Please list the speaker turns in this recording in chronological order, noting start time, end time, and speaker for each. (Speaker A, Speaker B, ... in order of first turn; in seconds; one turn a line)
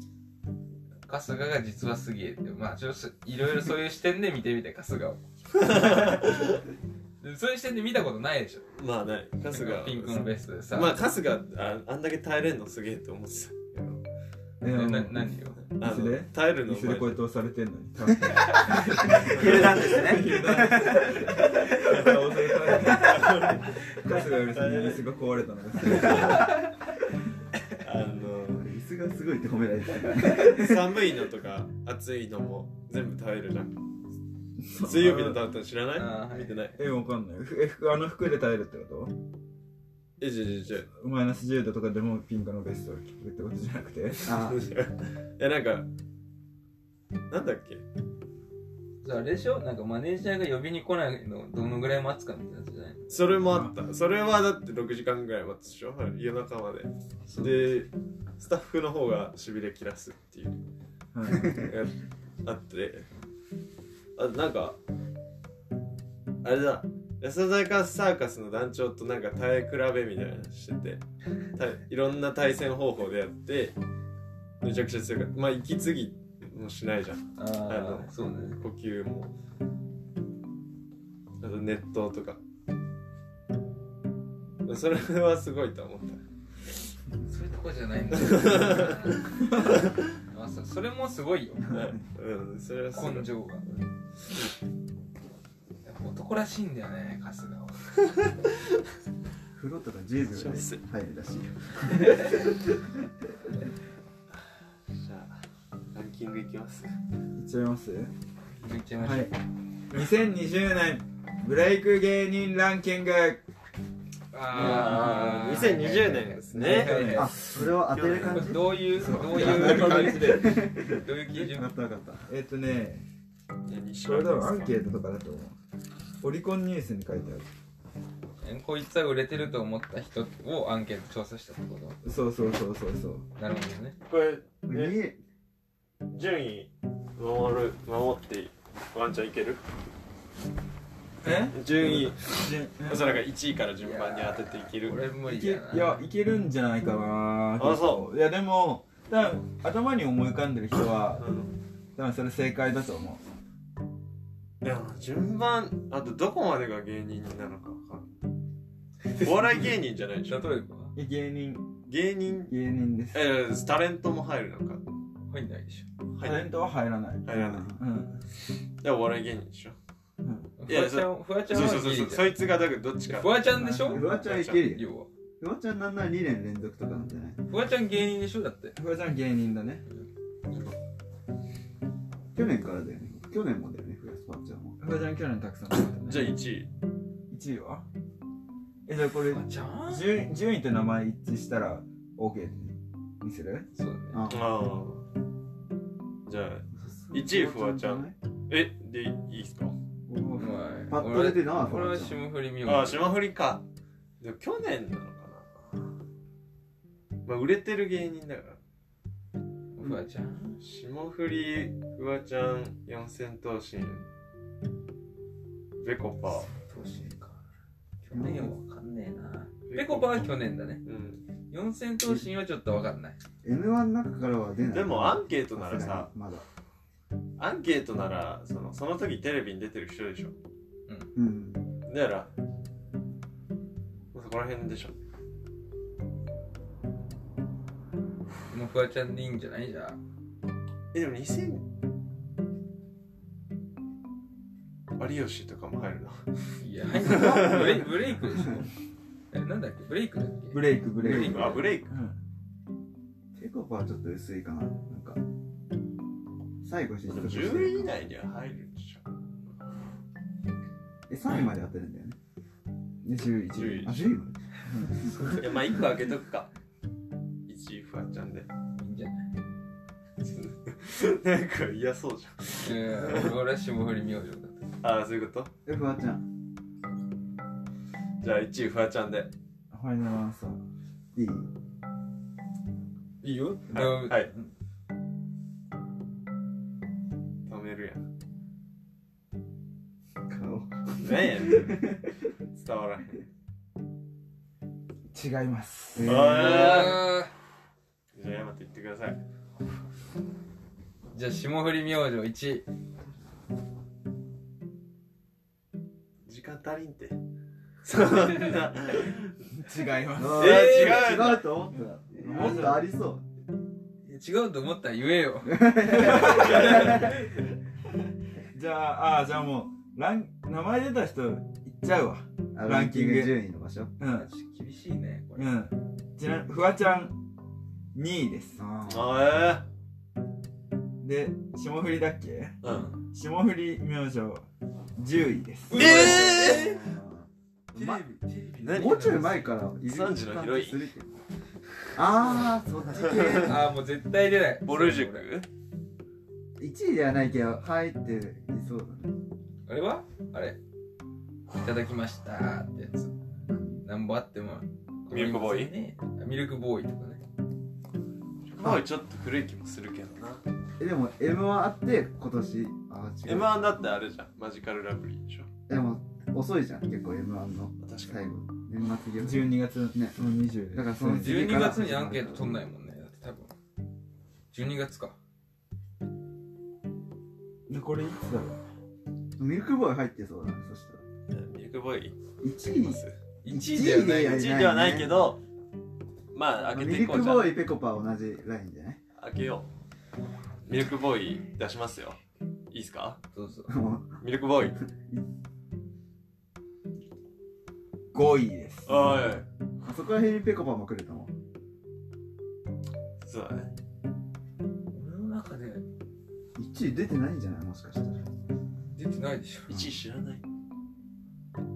Speaker A: 1.1-6.1
Speaker B: 5.6-6.6
Speaker A: 7.2-8.6
Speaker B: 8.8-14.0
Speaker A: 9.5-11.0
Speaker C: 14.6-26.5
Speaker A: 14.7-15.6
Speaker B: 15.6-17.2
Speaker D: 18.7-22.1
Speaker B: 19.3-19.7
Speaker B: 21.9-23.8
Speaker B: 24.3-25.0
Speaker B: 25.8-26.6
Speaker B: 27.8-28.7
Speaker D: 28.5-31.0
Speaker B: 30.2-33.8
Speaker C: 34.6-35.4
Speaker B: 34.8-36.8
Speaker A: 36.0-36.6
Speaker C: 36.8-39.1
Speaker B: 40.2-40.9
Speaker C: 40.9-44.4
Speaker D: 44.2-44.7
Speaker B: 44.3-45.9
Speaker B: 47.3-47.8
Speaker A: 49.0-53.0
Speaker B: 53.1-60.6
Speaker C: 53.5-53.7
Speaker A: 57.3-57.6
Speaker C: 61.1-61.6
Speaker B: 61.3-63.1
Speaker B: 64.2-64.8
Speaker B: 66.4-71.0
Speaker B: 71.5-73.8
Speaker B: 74.6-79.3
Speaker A: 77.4-78.6
Speaker B: 81.4-82.4
Speaker B: 84.6-86.2
Speaker A: 87.2-89.2
Speaker B: 88.1-89.9
Speaker A: 90.3-91.8
Speaker B: 91.7-93.8
Speaker A: 92.9-93.6
Speaker A: 95.8-97.8
Speaker D: 99.5-102.9
Speaker B: 100.3-100.8
Speaker B: 105.0-105.3
Speaker B: 105.9-106.9
Speaker C: 107.3-108.1
Speaker A: 108.6-109.3
Speaker C: 109.0-109.4
Speaker C: 109.9-113.4
Speaker A: 114.3-117.4
Speaker B: 114.5-118.6
Speaker C: 114.5-115.7
Speaker C: 116.5-117.7
Speaker D: 117.1-118.8
Speaker A: 118.3-121.7
Speaker C: 118.9-120.7
Speaker D: 119.3-122.3
Speaker C: 122.3-123.0
Speaker B: 123.7-124.7
Speaker C: 124.0-125.5
Speaker C: 126.2-127.5
Speaker A: 128.4-132.0
Speaker C: 132.0-133.2
Speaker A: 133.4-133.9
Speaker B: 134.1-135.0
Speaker D: 134.7-135.2
Speaker B: 136.1-139.6
Speaker C: 141.2-143.2
Speaker B: 141.5-145.0
Speaker A: 143.8-146.0
Speaker C: 145.2-151.3
Speaker B: 147.6-148.1
Speaker B: 151.2-151.5
Speaker C: 151.9-153.2
Speaker B: 154.6-158.1
Speaker B: 159.2-160.4
Speaker A: 160.3-160.9
Speaker C: 160.9-161.7
Speaker B: 161.9-162.5
Speaker C: 162.5-163.2
Speaker B: 163.1-164.8
Speaker A: 165.3-165.8
Speaker B: 166.1-166.5
Speaker C: 166.2-168.2
Speaker B: 167.2-167.8
Speaker D: 167.3-167.8
Speaker B: 168.8-169.8
Speaker C: 170.2-170.5
Speaker A: 170.6-172.3
Speaker B: 170.7-173.4
Speaker A: 173.1-175.1
Speaker C: 173.5-174.1
Speaker D: 173.9-174.8
Speaker B: 174.0-174.7
Speaker D: 175.4-177.4
Speaker A: 177.5-178.8
Speaker C: 178.8-179.8
Speaker D: 182.3-184.8
Speaker C: 184.8-186.3
Speaker B: 185.9-186.7
Speaker C: 187.3-187.8
Speaker C: 188.8-193.7
Speaker A: 189.3-190.1
Speaker A: 193.8-194.2
Speaker D: 194.1-194.6
Speaker B: 194.3-195.0
Speaker B: 196.2-199.8
Speaker D: 196.7-198.1
Speaker C: 200.1-200.5
Speaker A: 200.4-203.1
Speaker D: 200.9-202.2
Speaker B: 202.6-203.6
Speaker B: 204.2-205.5
Speaker B: 207.2-208.6
Speaker A: 209.8-210.6
Speaker B: 210.6-214.1
Speaker B: 215.8-216.5
Speaker A: 216.4-217.4
Speaker A: 218.0-220.8
Speaker D: 218.1-218.5
Speaker B: 219.7-220.3
Speaker B: 220.8-221.2
Speaker A: 221.5-223.2
Speaker D: 223.4-226.4
Speaker B: 224.7-226.1
Speaker B: 227.4-230.3
Speaker D: 231.1-231.7
Speaker B: 231.8-232.3
Speaker B: 234.1-234.9
Speaker A: 238.5-240.0
Speaker B: 240.9-241.6
Speaker B: 245.0-246.2
Speaker A: 246.6-248.7
Speaker B: 246.9-247.9
Speaker D: 248.3-248.6
Speaker A: 249.3-251.7
Speaker C: 250.5-252.2
Speaker D: 251.0-251.6
Speaker B: 251.1-251.9
Speaker D: 253.3-255.2
Speaker D: 256.6-257.9
Speaker B: 257.1-259.0
Speaker D: 261.1-262.2
Speaker C: 263.0-263.9
Speaker B: 263.5-264.1
Speaker D: 263.8-265.4
Speaker B: 265.4-266.5
Speaker B: 267.5-268.5
Speaker A: 268.8-269.3
Speaker B: 270.2-273.4
Speaker A: 272.6-274.7
Speaker B: 274.8-275.5
Speaker D: 275.6-276.2
Speaker B: 278.2-279.3
Speaker C: 279.7-280.6
Speaker D: 281.1-281.5
Speaker A: 283.2-284.5
Speaker B: 283.7-284.3
Speaker B: 287.5-288.0
Speaker D: 290.3-292.1
Speaker B: 291.0-291.8
Speaker B: 292.5-293.2
Speaker C: 295.1-296.1
Speaker D: 295.9-296.9
Speaker B: 296.0-297.2
Speaker A: 296.3-297.3
Speaker B: 298.1-299.2
Speaker A: 301.1-302.6
Speaker B: 306.2-307.2
Speaker B: 307.8-309.3
Speaker A: 308.1-308.5
Speaker C: 309.5-310.6
Speaker D: 310.2-313.2
Speaker B: 310.3-311.5
Speaker A: 310.4-311.2
Speaker A: 312.2-312.8
Speaker C: 312.2-312.9
Speaker A: 314.1-317.1
Speaker D: 315.4-317.3
Speaker C: 315.9-317.0
Speaker C: 318.5-323.3
Speaker D: 322.5-323.9
Speaker C: 324.0-324.3
Speaker A: 324.1-325.5
Speaker C: 325.4-327.1
Speaker C: 327.9-328.6
Speaker D: 328.6-329.2
Speaker B: 328.9-329.6
Speaker C: 331.0-334.4
Speaker B: 332.6-332.9
Speaker A: 332.6-333.0
Speaker C: 334.9-336.2
Speaker A: 335.7-336.7
Speaker B: 335.7-336.9
Speaker D: 336.0-338.0
Speaker B: 337.7-340.9
Speaker A: 337.8-339.5
Speaker D: 338.6-341.2
Speaker D: 341.9-343.7
Speaker A: 342.1-345.2
Speaker B: 342.9-343.6
Speaker B: 344.6-345.5
Speaker D: 346.6-349.1
Speaker A: 349.7-350.6
Speaker A: 351.6-353.1
Speaker D: 353.5-353.8
Speaker A: 353.8-357.2
Speaker B: 355.1-355.7
Speaker B: 358.5-360.4
Speaker D: 360.8-363.8
Speaker B: 363.2-365.5
Speaker D: 365.7-370.2
Speaker B: 367.8-368.2
Speaker C: 369.2-371.6
Speaker D: 370.7-372.5
Speaker A: 371.2-373.5
Speaker A: 374.5-375.1
Speaker C: 377.7-378.6
Speaker D: 379.4-381.0
Speaker B: 381.3-383.1
Speaker D: 382.4-385.1
Speaker A: 383.4-384.4
Speaker B: 384.0-385.4
Speaker B: 386.3-387.6
Speaker D: 386.7-389.0
Speaker B: 389.1-389.7
Speaker B: 390.6-392.2
Speaker B: 392.7-393.2
Speaker A: 393.3-393.7
Speaker D: 393.7-394.2
Speaker B: 394.2-394.8
Speaker D: 395.0-395.2
Speaker C: 398.1-399.3
Speaker B: 398.9-399.4
Speaker D: 399.8-401.3
Speaker B: 403.2-403.7
Speaker A: 404.9-405.8
Speaker D: 406.6-408.2
Speaker A: 408.9-409.9
Speaker B: 409.7-410.4